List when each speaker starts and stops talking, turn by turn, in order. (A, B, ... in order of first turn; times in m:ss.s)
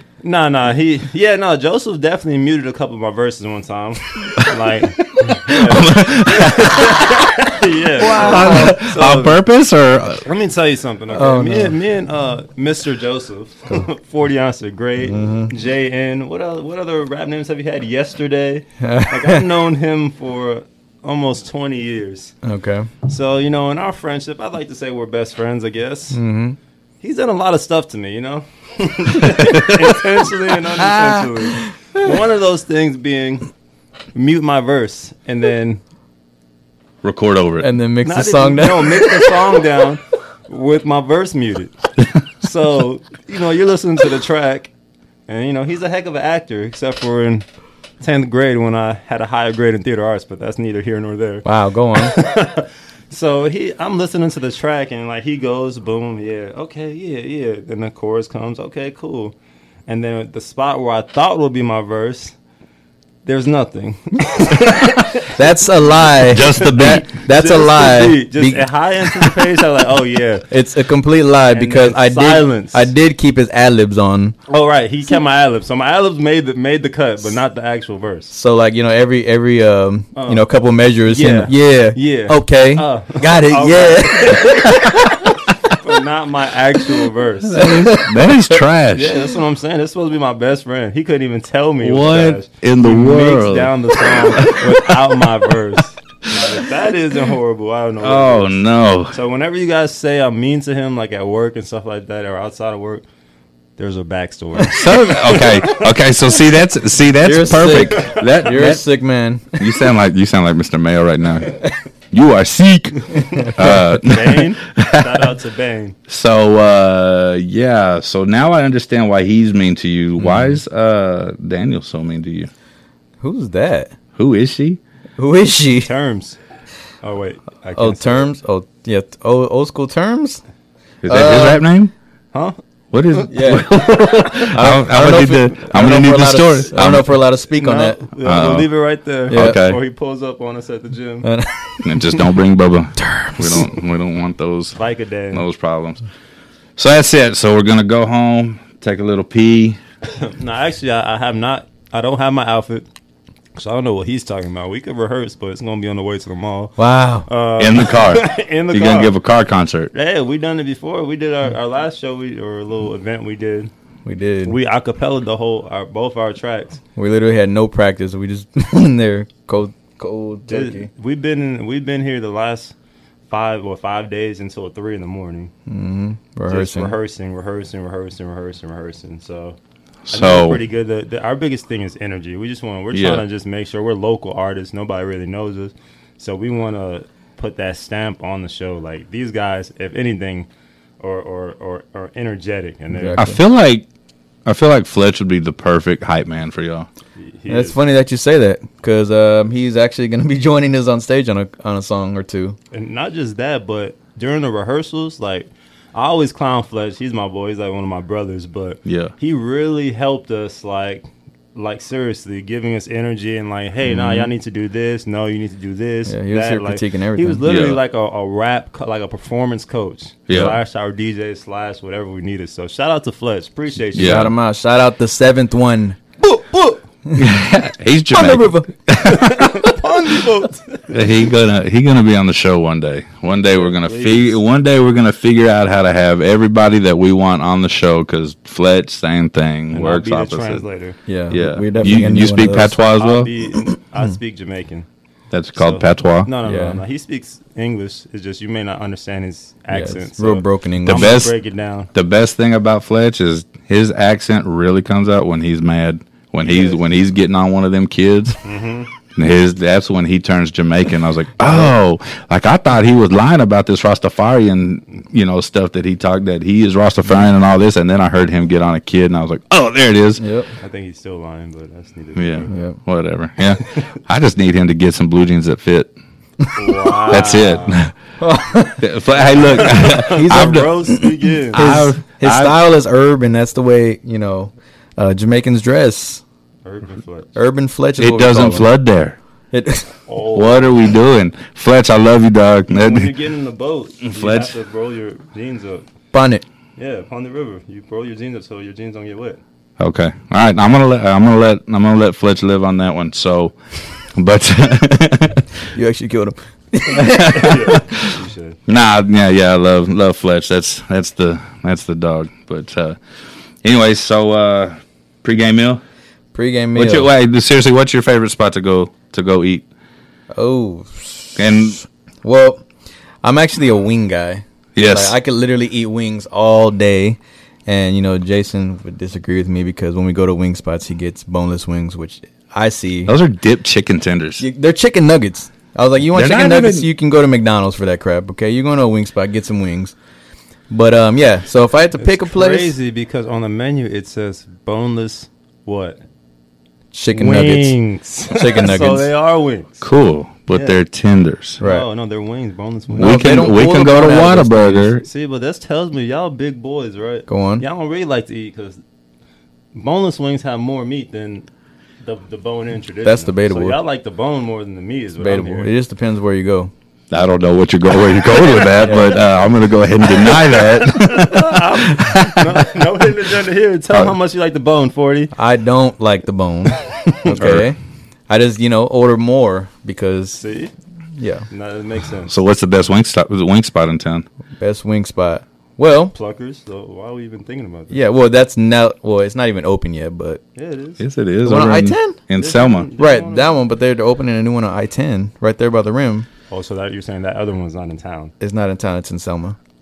0:00.2-0:09.4 A
0:05.2-0:07.3 B
0:08.0-0:08.8 C
0:08.0-0:10.2 B
0:10.2-0:22.4 A
0:11.1-0:11.8 C
0:15.0-0:15.5 C
0:18.8-0:19.5 C
0:22.4-0:22.9 C
0:23.1-0:26.2 A
0:26.1-0:26.6 C
0:27.0-0:33.5 A
0:30.9-0:31.5 C
0:34.2-0:35.8 A
0:37.0-0:37.7 B
0:37.6-0:39.4 C
0:38.0-0:41.7 A
0:42.4-0:44.7 A
0:45.3-0:47.5 A
0:48.0-0:59.3 A
0:51.4-0:52.2 C
0:59.9-1:02.4 A
1:03.2-1:05.3 A
1:05.3-1:09.4 C
1:06.3-1:07.0 B
1:06.4-1:10.5 A
1:10.5-1:14.4 C
1:11.5-1:12.9 A
1:14.5-1:18.3 A
1:18.3-1:24.9 C
1:20.2-1:20.4 A
1:21.1-1:25.1 A
1:25.8-1:27.9 A
1:27.5-1:29.2 B
1:27.6-1:28.0 C
1:28.9-1:38.6 A
1:31.8-1:34.9 B
1:38.0-1:39.2 B
1:39.1-1:43.0 A
1:43.8-1:45.9 A
1:44.7-1:48.8 B
1:47.2-1:49.8 C
1:47.6-1:48.3 A
1:49.6-1:55.1 B
1:53.6-1:56.0 A
1:56.1-2:02.5 B
2:00.2-2:00.6 C
2:03.2-2:04.0 C
2:04.2-2:04.8 B
2:05.2-2:05.9 C
2:05.8-2:06.4 A
2:07.0-2:08.3 A
2:07.8-2:10.4 C
2:11.0-2:11.9 B
2:11.1-2:11.7 C
2:12.3-2:12.6 A
2:12.9-2:17.2 B
2:13.3-2:18.0 C
2:17.5-2:21.3 A
2:18.2-2:18.7 B
2:19.3-2:19.6 C
2:19.3-2:19.8 B
2:21.2-2:22.2 C
2:21.8-2:24.8 B
2:23.0-2:23.7 C
2:24.7-2:25.5 A
2:25.3-2:26.0 B
2:26.8-2:29.8 B
2:30.1-2:32.9 A
2:33.6-2:39.1 A
2:36.8-2:37.3 C
2:37.6-2:39.9 B
2:39.9-2:43.7 A
2:44.0-2:44.6 C
2:44.4-2:46.8 A
2:47.0-2:50.9 C
2:50.5-2:52.8 A
2:53.3-2:55.5 A
2:55.7-2:57.0 C
2:56.5-2:59.6 A
3:00.1-3:00.6 B
3:00.1-3:10.5 A
3:02.9-3:03.2 B
3:11.0-3:13.2 A
3:12.9-3:13.4 C
3:13.2-3:13.8 B
3:14.5-3:16.9 B
3:17.2-3:17.8 A
3:17.5-3:22.6 C
3:22.7-3:44.3 A
3:28.9-3:29.1 B
3:33.9-3:34.3 B
3:36.1-3:37.4 C
3:37.5-3:37.8 B
3:40.3-3:40.6 B
3:44.0-3:44.3 B
3:44.0-3:47.2 C
3:47.1-3:49.7 B
3:48.1-3:48.9 C
3:49.0-3:51.0 A
3:50.9-4:00.6 B
3:53.4-3:54.4 A
3:59.7-4:01.0 A
4:01.1-4:02.8 C
4:01.3-4:03.3 B
4:02.8-4:04.9 A
4:05.3-4:06.3 B
4:05.6-4:11.9 A
4:06.4-4:06.8 C
4:09.7-4:11.2 C
4:10.9-4:11.3 B
4:11.9-4:18.4 B
4:16.4-4:16.8 A
4:18.4-4:18.9 A
4:19.1-4:30.2 B
4:21.4-4:21.7 C
4:30.2-4:30.5 C
4:30.6-4:32.5 A
4:32.2-4:35.9 B
4:32.5-4:32.8 C
4:36.6-4:37.9 A
4:37.1-4:37.9 B
4:38.2-4:38.9 C
4:38.8-4:40.7 B
4:39.1-4:41.8 A
4:39.5-4:46.2 C
4:41.5-4:42.5 B
4:46.6-4:47.3 A
4:47.4-4:48.7 C
4:48.0-4:49.2 B
4:49.5-4:49.9 C
4:50.1-4:50.9 A
4:50.4-4:53.1 B
4:52.7-4:55.8 A
4:54.0-4:54.5 B
4:56.1-4:56.4 C
4:56.8-4:59.4 A
4:59.8-5:03.6 B
5:04.2-5:05.5 B
5:05.7-5:07.8 C
5:07.2-5:08.1 B
5:07.3-5:08.6 A
5:08.7-5:13.0 B
5:13.6-5:15.8 B
5:16.3-5:17.1 C
5:16.8-5:19.6 B
5:20.3-5:21.6 C
5:21.4-5:21.8 B
5:22.2-5:22.6 C
5:23.2-5:33.2 C
5:24.8-5:25.1 B
5:33.1-5:34.4 B
5:34.4-5:40.0 C
5:36.1-5:36.9 B
5:40.7-5:42.8 C
5:42.0-5:46.0 A
5:46.9-5:47.8 C
5:47.1-5:49.7 A
5:48.3-5:49.1 C
5:49.8-5:51.6 B
5:50.5-5:50.8 A
5:51.6-5:51.9 C
5:51.6-5:53.6 A
5:52.9-5:55.0 C
5:53.0-5:55.0 B
5:55.0-5:58.8 A
5:57.3-5:57.7 C
5:59.7-6:01.5 A
6:02.0-6:05.7 A
6:03.0-6:03.8 C
6:05.2-6:06.7 C
6:07.1-6:12.3 B
6:08.4-6:09.0 A
6:08.8-6:09.1 C
6:10.0-6:15.3 A
6:15.4-6:17.8 C
6:17.4-6:17.7 B
6:18.3-6:20.4 C
6:20.4-6:20.7 A
6:21.2-6:21.4 C
6:21.5-6:22.3 A
6:22.3-6:24.3 B
6:24.6-6:26.1 C
6:26.1-6:28.0 A
6:27.9-6:30.4 C
6:30.6-6:31.0 A
6:31.0-6:32.9 B
6:31.4-6:32.2 C
6:32.4-6:33.6 A
6:33.0-6:36.3 C
6:36.5-6:38.3 A
6:38.4-6:39.6 C